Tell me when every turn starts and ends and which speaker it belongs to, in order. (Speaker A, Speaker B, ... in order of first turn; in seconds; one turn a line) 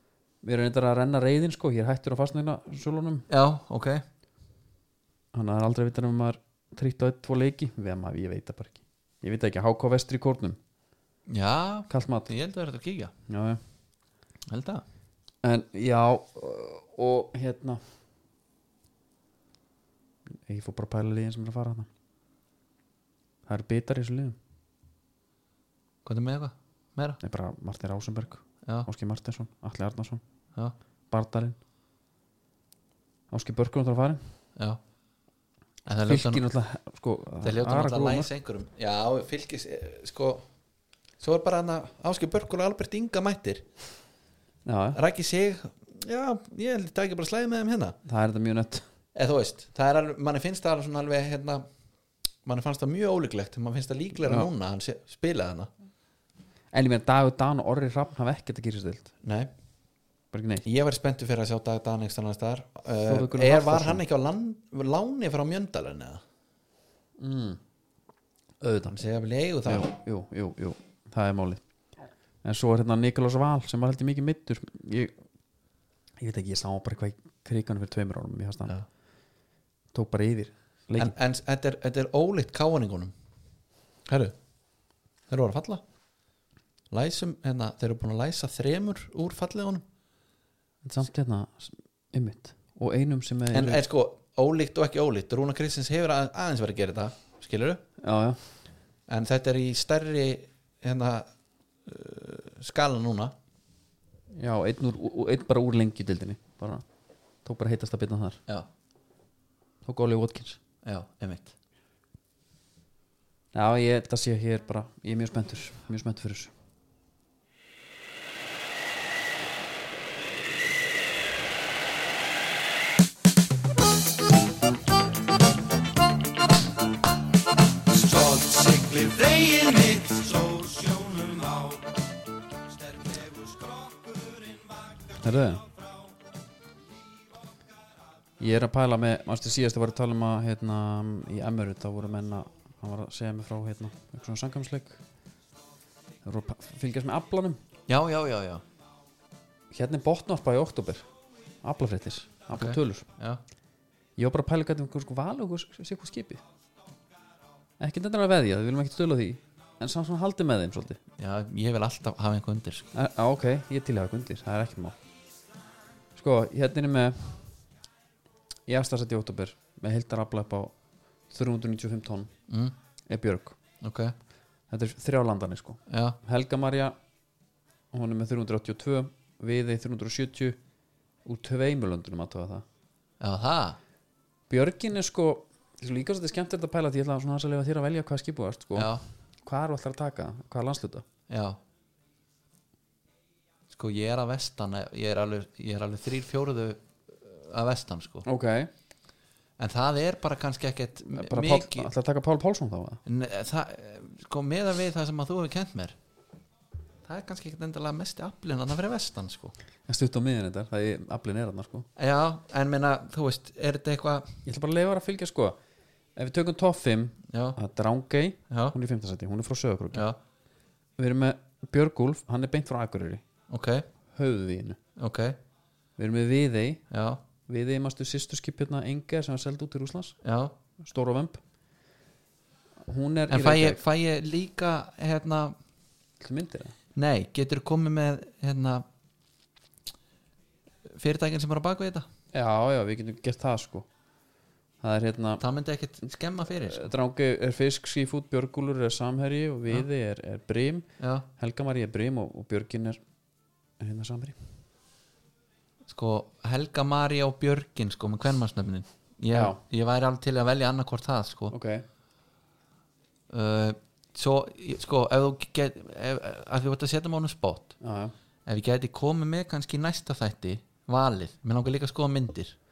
Speaker A: 0.4-3.3
Speaker B: 3.3-4.0
Speaker A: 5.3-10.6
Speaker B: 11.3-13.1
Speaker A: 11.9-12.3
Speaker A: 13.3-13.6
Speaker B: 14.5-14.8
Speaker A: 15.4-17.8
Speaker A: 20.4-21.9
Speaker A: 23.5-24.4
Speaker B: 26.1-27.2
Speaker A: 27.2-30.2
Speaker A: 31.1-31.6
Speaker A: 33.3-34.2
Speaker B: 35.9-36.4
Speaker A: 36.0-38.3
Speaker B: 37.4-40.5
Speaker B: 41.2-43.7
Speaker A: 44.7-45.0
Speaker B: 45.0-48.0
Speaker A: 48.0-48.9
Speaker B: 49.1-51.7
Speaker B: 52.5-55.7
Speaker A: 54.2-54.5
Speaker A: 56.7-59.1
Speaker B: 59.2-59.5
Speaker A: 60.3-60.6
Speaker B: 60.6-66.2
Speaker A: 63.1-64.0
Speaker A: 67.2-67.6
Speaker A: 68.6-69.0
Speaker B: 68.9-69.9
Speaker A: 69.7-71.6
Speaker A: 72.4-75.1
Speaker A: 76.2-78.8
Speaker A: 79.9-81.1
Speaker B: 81.0-83.1
Speaker B: 84.1-84.3
Speaker B: 85.3-85.8
Speaker B: 86.9-89.8
Speaker A: 90.8-93.8
Speaker B: 93.5-97.8
Speaker A: 98.0-98.4
Speaker B: 99.1-101.3
Speaker B: 101.9-103.3
Speaker A: 104.3-106.8
Speaker A: 107.4-108.4
Speaker A: 109.8-110.6
Speaker B: 110.8-111.5
Speaker A: 113.5-116.5
Speaker C: 127.9-131.9
Speaker C: 133.0-134.7
Speaker A: 135.2-135.7
Speaker A: 138.4-145.0
Speaker A: 146.2-147.6
Speaker B: 147.9-148.6
Speaker A: 149.7-151.1
Speaker A: 151.6-153.1
Speaker B: 152.5-153.4
Speaker A: 154.2-156.4
Speaker A: 157.8-161.0
Speaker B: 161.2-162.9
Speaker A: 162.9-165.0
Speaker A: 166.2-167.5
Speaker A: 168.7-170.8
Speaker A: 171.3-172.3
Speaker B: 172.5-172.7
Speaker A: 173.1-173.6
Speaker B: 173.8-174.1
Speaker A: 174.7-177.0
Speaker B: 175.9-176.2
Speaker A: 177.9-180.6
Speaker A: 181.2-182.7
Speaker B: 183.2-183.8
Speaker A: 184.5-191.1
Speaker B: 188.7-189.0
Speaker B: 191.3-191.6
Speaker B: 193.7-198.3
Speaker A: 198.2-198.7
Speaker B: 199.6-201.9
Speaker A: 201.1-203.0
Speaker B: 203.1-206.0
Speaker B: 207.1-209.6
Speaker A: 209.9-211.9
Speaker B: 212.0-214.4
Speaker A: 214.5-215.6
Speaker A: 216.2-220.1
Speaker B: 217.3-217.6
Speaker B: 218.5-218.8
Speaker B: 219.9-220.2
Speaker A: 221.0-223.2
Speaker B: 223.5-223.9
Speaker A: 224.1-224.8
Speaker B: 225.0-225.4
Speaker A: 226.0-226.8
Speaker B: 226.9-227.2
Speaker A: 227.5-230.2
Speaker B: 230.2-230.6
Speaker A: 230.8-231.4
Speaker A: 232.8-233.8
Speaker B: 233.3-235.6
Speaker A: 236.2-236.8
Speaker B: 237.0-238.8
Speaker B: 240.9-242.1
Speaker A: 242.3-243.9
Speaker A: 244.8-245.4
Speaker B: 245.4-246.9
Speaker A: 246.7-253.0
Speaker B: 251.0-251.3
Speaker A: 253.8-254.4
Speaker B: 255.9-261.6
Speaker A: 259.3-259.6
Speaker A: 261.5-261.9
Speaker B: 263.3-267.8
Speaker A: 267.8-268.1
Speaker B: 268.5-272.6